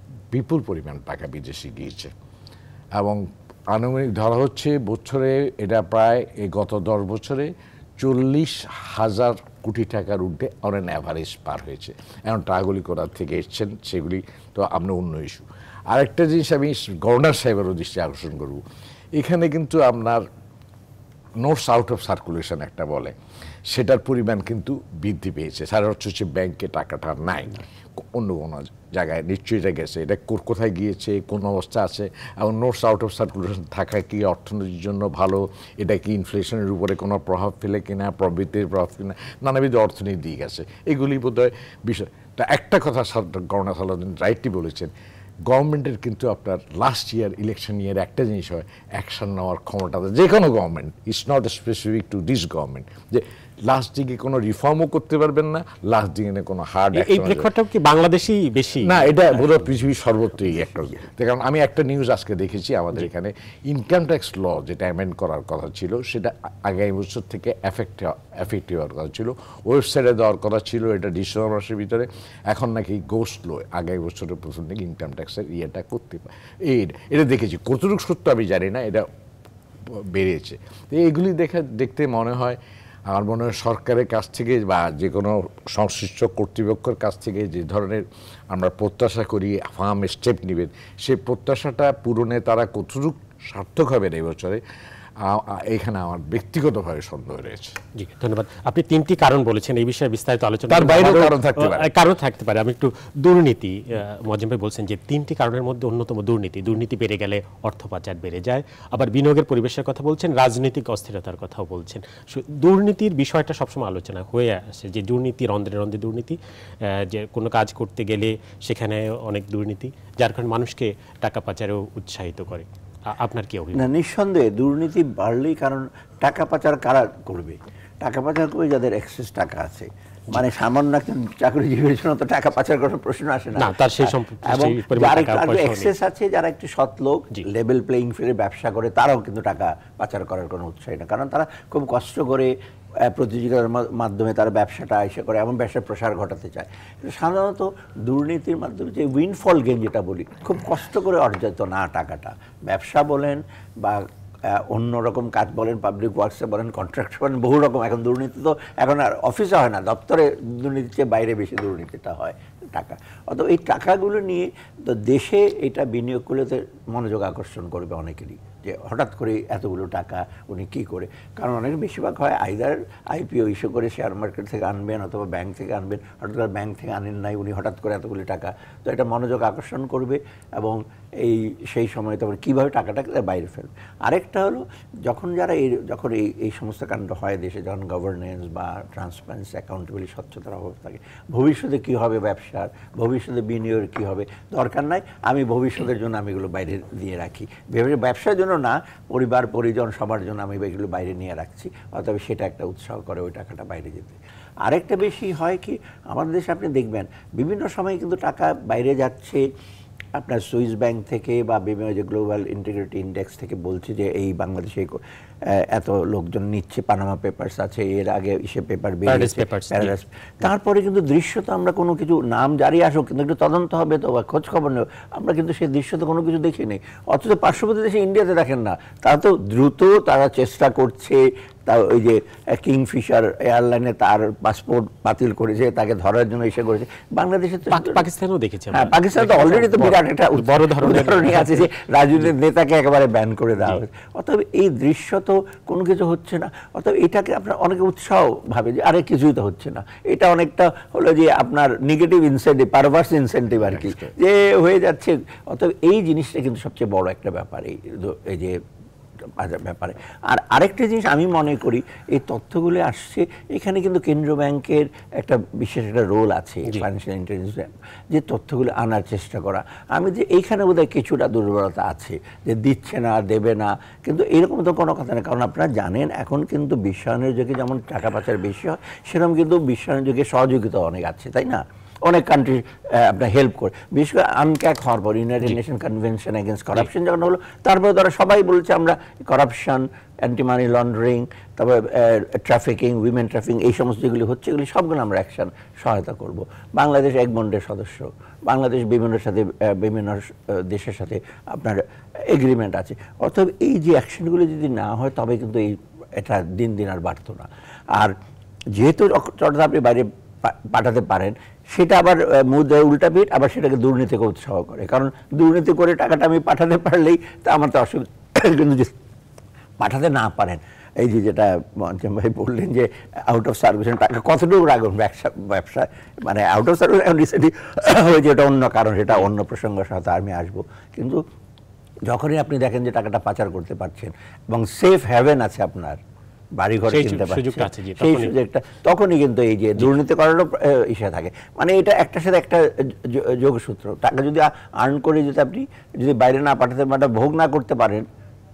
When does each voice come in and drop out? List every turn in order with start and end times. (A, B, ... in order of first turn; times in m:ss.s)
0:00.3-0:02.1 A
0:03.0-0:18.6 A
0:19.2-0:20.2 A
0:21.4-0:23.1 A
0:23.7-0:44.9 A
0:45.5-0:57.5 A
0:57.0-0:59.4 B
0:58.8-1:19.1 A
1:19.9-1:34.6 A
1:35.2-1:37.8 A
1:38.0-2:03.8 B
1:40.7-1:41.9 A
2:03.7-3:29.4 C
2:13.6-2:15.9 B
3:30.2-3:58.0 C
3:39.1-3:39.9 B
3:57.7-4:01.7 B
3:58.7-4:18.6 C
4:13.8-4:14.1 A
4:19.4-5:08.1 C
5:08.7-5:19.0 C
5:19.8-5:31.2 C
5:32.1-5:36.0 C
5:36.6-5:48.0 C
5:36.9-5:38.3 B